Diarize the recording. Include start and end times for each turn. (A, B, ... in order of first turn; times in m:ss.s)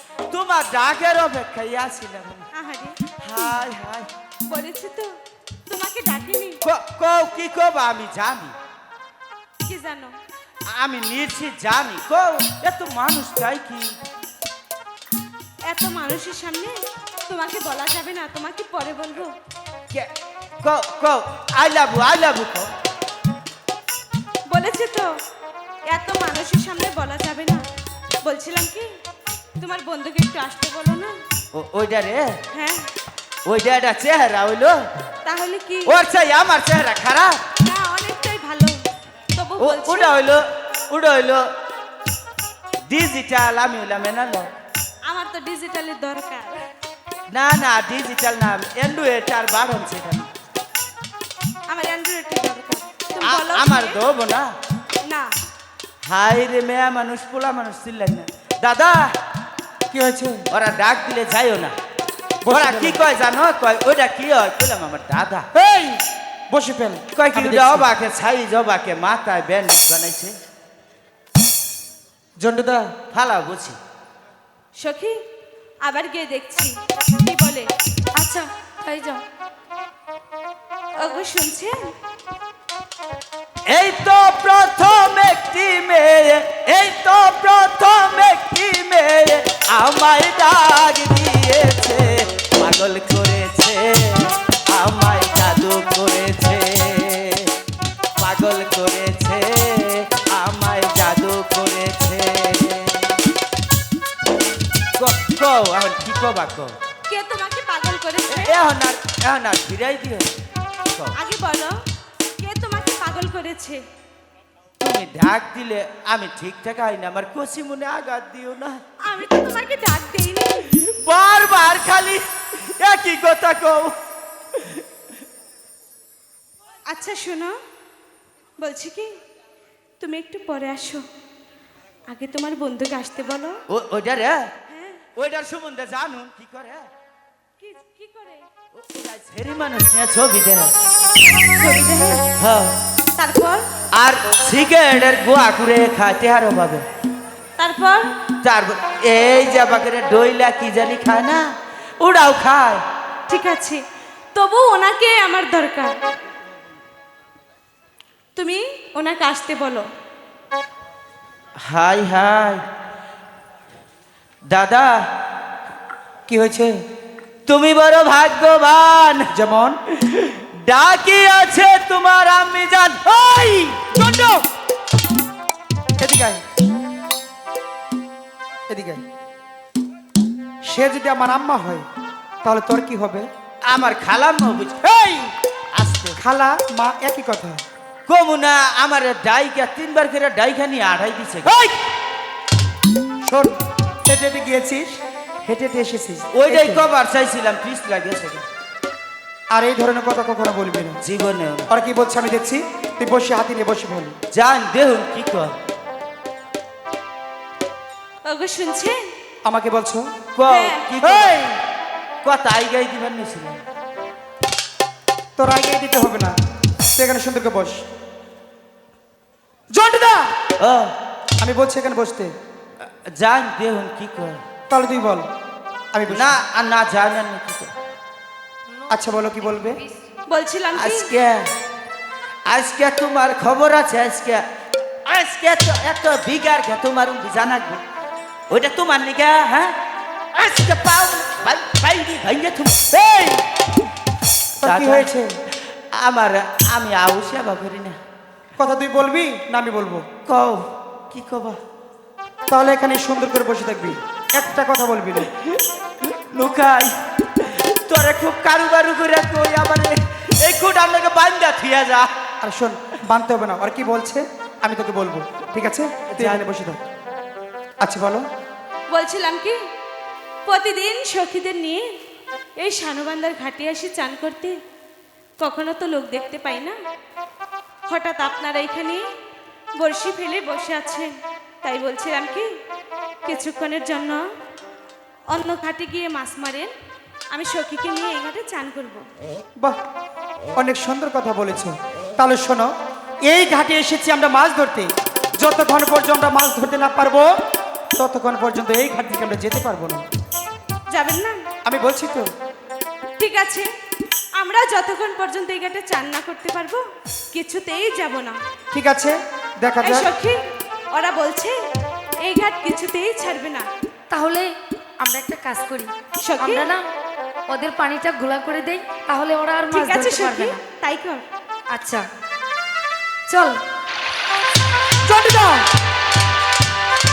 0:00.3-0:02.5 A
0:02.5-0:03.0 B
0:03.2-0:04.1 A
0:04.5-0:05.2 B
0:05.7-0:06.6 B
0:06.6-0:08.6 A
0:09.7-0:10.2 B
0:10.7-0:13.9 A
0:15.7-0:16.8 B
0:17.3-0:19.4 B
0:19.9-0:22.7 A
0:24.5-0:25.1 B
0:25.9-0:27.6 B
0:28.2-0:28.9 B
0:29.6-0:31.2 B
0:31.5-0:32.4 A
0:32.5-0:32.9 B
0:33.5-0:34.8 A
0:35.2-0:36.0 B
0:35.8-0:37.4 A
0:37.6-0:38.8 B
0:39.4-0:40.1 B
0:39.6-0:41.5 A
0:42.9-0:44.5 A
0:45.0-0:46.6 B
0:47.3-0:50.3 A
0:51.7-0:54.0 B
0:53.2-0:54.5 A
0:55.0-0:55.4 B
0:56.0-0:59.1 A
0:59.9-1:00.4 C
1:00.5-1:01.8 A
1:02.4-1:03.0 C
1:02.5-1:05.5 A
1:05.5-1:07.9 C
1:07.1-1:10.4 A
1:12.4-1:12.9 C
1:13.1-1:13.8 A
1:14.8-1:15.2 B
1:15.8-1:17.7 B
1:18.2-1:19.2 D
1:21.0-1:21.9 B
1:23.7-1:37.5 A
1:38.2-1:43.2 A
1:45.0-1:46.8 A
1:47.1-1:48.6 B
1:48.3-1:50.3 A
1:50.8-1:51.2 A
1:51.2-1:51.8 B
1:52.4-1:53.8 B
1:54.8-1:58.8 A
1:59.0-2:00.7 B
2:00.7-2:04.0 A
2:04.5-2:04.8 A
2:06.9-2:07.6 B
2:08.6-2:09.2 B
2:10.0-2:11.0 B
2:12.1-2:13.6 B
2:13.7-2:14.5 A
2:14.7-2:15.1 B
2:15.2-2:16.9 A
2:17.6-2:18.4 B
2:18.7-2:20.7 A
2:21.6-2:22.2 B
2:22.4-2:22.8 A
2:23.2-2:23.6 B
2:24.0-2:26.8 A
2:27.6-2:28.1 B
2:28.4-2:31.4 A
2:32.0-2:32.8 A
2:33.3-2:33.8 B
2:34.3-2:36.0 B
2:38.4-2:39.9 B
2:41.6-2:42.6 A
2:44.5-2:45.1 A
2:46.3-2:46.7 C
2:47.5-2:49.3 A
2:49.3-2:49.8 C
2:49.9-2:53.0 A
2:53.1-2:54.4 C
2:56.0-2:56.4 C
2:58.7-2:59.0 C
3:00.7-3:01.8 C
3:02.4-3:03.3 C
3:03.7-3:04.8 A
3:04.8-3:05.3 C
3:05.7-3:06.2 A
3:06.2-3:07.6 C
3:08.1-3:11.5 A
3:11.4-3:11.8 C
3:13.3-3:13.5 C
3:14.1-3:16.8 C
3:16.3-3:18.4 A
3:19.5-3:21.0 C
3:21.0-3:21.7 A
3:21.7-3:24.2 C
3:24.3-3:25.6 A
3:28.2-3:29.0 B
3:29.5-3:30.0 C
3:30.4-3:31.4 A
3:30.5-3:30.9 B
3:31.0-3:31.6 C
3:32.2-3:33.6 A
3:35.4-3:36.4 C
3:37.0-3:37.8 C
3:39.7-3:40.3 C
3:40.6-3:41.0 A
3:41.4-3:42.3 C
3:42.8-3:44.4 A
3:44.7-3:45.3 C
3:45.9-3:46.4 C
3:46.1-3:47.7 A
3:48.9-3:49.8 C
3:49.4-3:50.0 D
3:50.3-3:51.1 B
3:50.8-3:51.5 A
3:52.5-3:54.4 A
3:55.1-3:57.8 A
3:58.5-3:59.8 A
4:00.3-4:02.9 A
4:02.9-4:03.4 C
4:04.6-4:05.3 C
4:04.6-4:05.1 A
4:05.9-4:08.0 A
4:08.6-4:10.0 C
4:10.3-4:11.6 A
4:12.5-4:15.3 C
4:15.3-4:22.1 A
4:22.4-4:26.8 C
4:26.1-4:26.4 A
4:27.8-4:28.3 C
4:28.9-4:29.6 B
4:30.5-4:31.9 B
4:32.6-4:34.6 B
4:35.4-4:36.8 B
4:37.9-4:39.0 B
4:39.8-4:41.1 B
4:41.6-4:42.5 B
4:43.2-4:44.2 B
4:45.3-4:46.7 B
4:47.3-4:49.1 B
4:50.6-4:52.7 C
4:53.3-4:57.3 C
4:58.0-5:00.0 C
5:00.9-5:01.5 B
5:01.6-5:02.3 C
5:03.2-5:03.7 B
5:04.4-5:08.4 B
5:08.7-5:10.1 C
5:09.8-5:10.4 B
5:10.9-5:11.6 B
5:12.2-5:13.7 B
5:14.1-5:16.9 D
5:16.2-5:16.7 B
5:17.5-5:20.6 D
5:19.7-5:21.2 B
5:21.7-5:22.1 D
5:23.3-5:23.6 D
5:25.0-5:25.6 C